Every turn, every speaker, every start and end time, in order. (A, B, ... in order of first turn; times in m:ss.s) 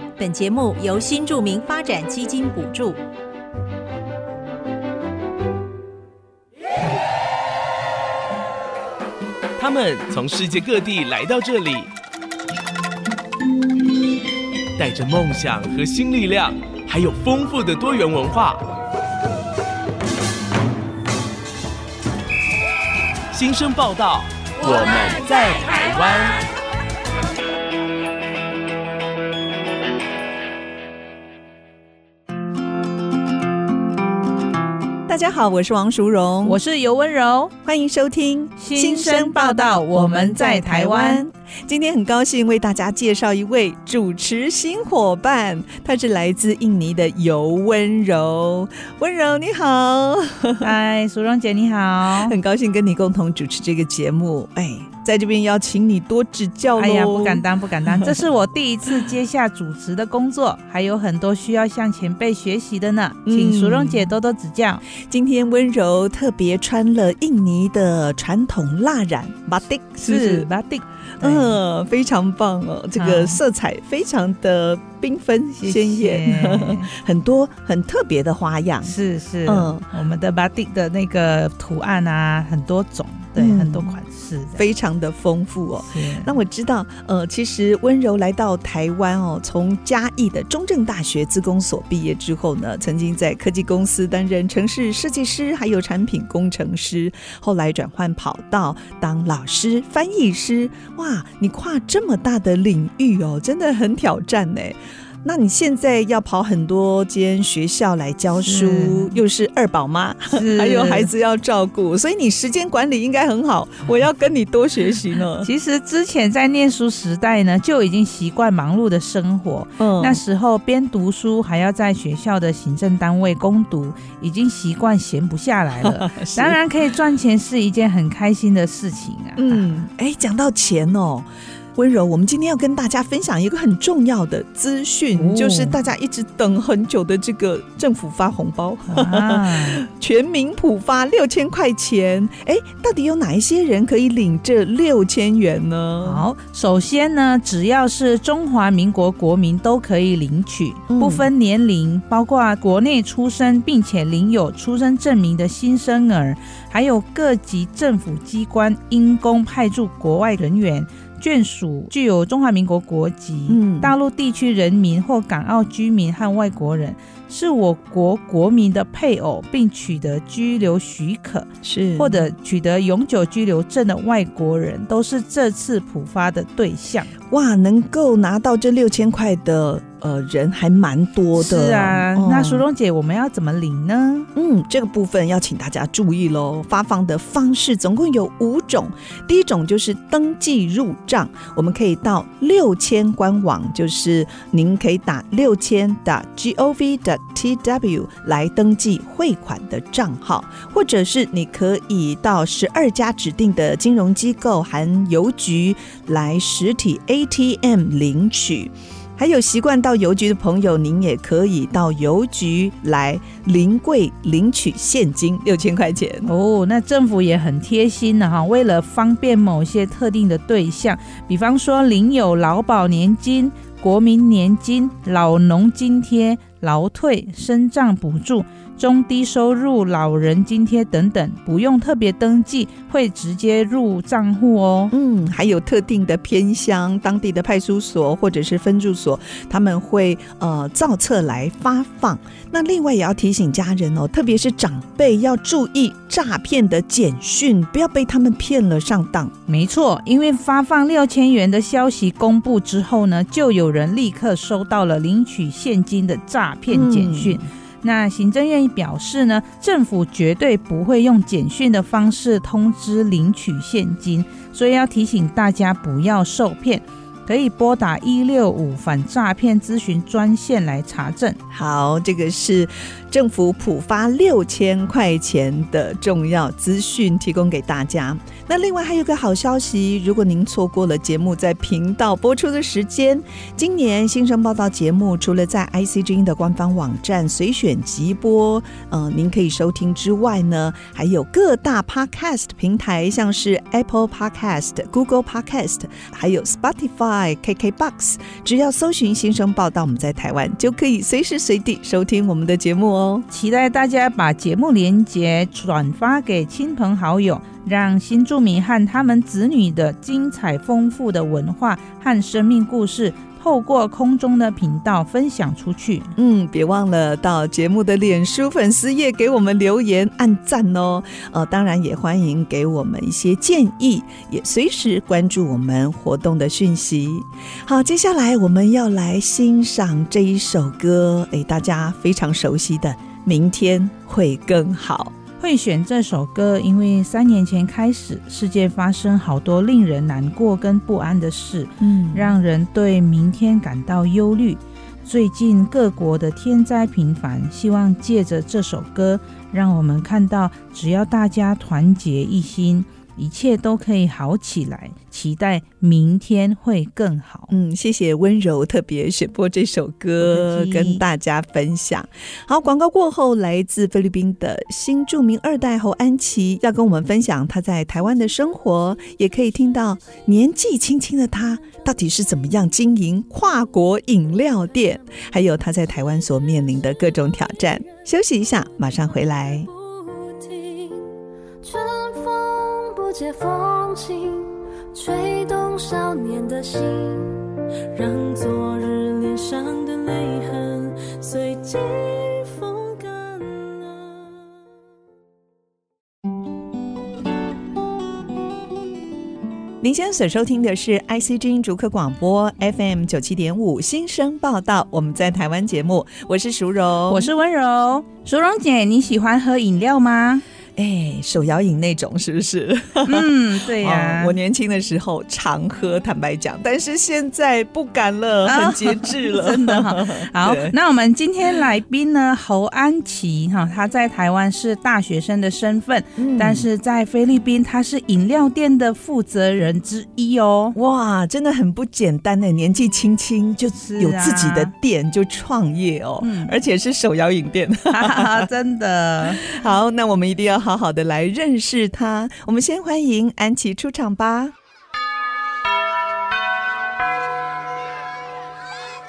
0:00.2-0:03.0 A
0:09.6-0:11.9 B
0:14.8-0:18.7 B
0:23.3-0:26.4 B
0:35.0-0:36.6 C
0:36.4-0:37.5 D
0:37.6-0:50.7 C
0:38.6-0:41.2 D
0:50.6-0:52.3 D
0:52.0-0:58.2 C
0:56.8-1:04.8 D
1:03.2-1:04.1 C
1:04.9-1:10.5 C
1:10.0-1:11.6 D
1:11.2-1:18.9 C
1:12.9-1:13.4 D
1:15.6-1:16.9 D
1:18.8-1:24.6 D
1:19.4-1:19.9 C
1:23.3-1:23.9 C
1:24.5-1:55.5 C
1:25.9-1:26.3 D
1:48.4-1:49.1 D
1:50.3-1:51.1 D
1:55.4-2:09.8 D
1:59.8-2:00.2 C
2:05.8-2:06.6 C
2:09.4-2:26.2 C
2:15.1-2:15.8 D
2:18.9-2:19.8 D
2:26.0-2:57.1 D
2:30.9-2:31.3 C
2:43.5-2:43.9 C
2:51.6-2:52.3 C
2:57.3-3:02.6 C
3:01.3-3:04.3 D
3:04.3-3:36.3 C
3:36.2-3:54.9 D
3:54.9-4:09.3 C
4:09.5-4:31.4 D
4:16.7-4:17.4 C
4:31.5-5:03.3 C
5:03.3-5:16.1 D
5:16.2-5:35.1 C
5:35.4-5:57.5 D
5:41.8-5:42.4 C
5:57.5-6:19.7 C
6:00.2-6:01.0 D
6:19.7-6:34.3 E
6:39.8-6:47.3 C
6:47.1-6:50.4 D
6:50.8-7:00.7 C
6:53.0-6:54.4 D
6:58.4-7:10.8 D
7:06.2-7:06.7 C
7:10.7-7:18.5 C
7:13.8-7:14.7 D
7:16.2-7:16.6 D
7:17.9-7:19.4 D
7:19.3-7:24.5 C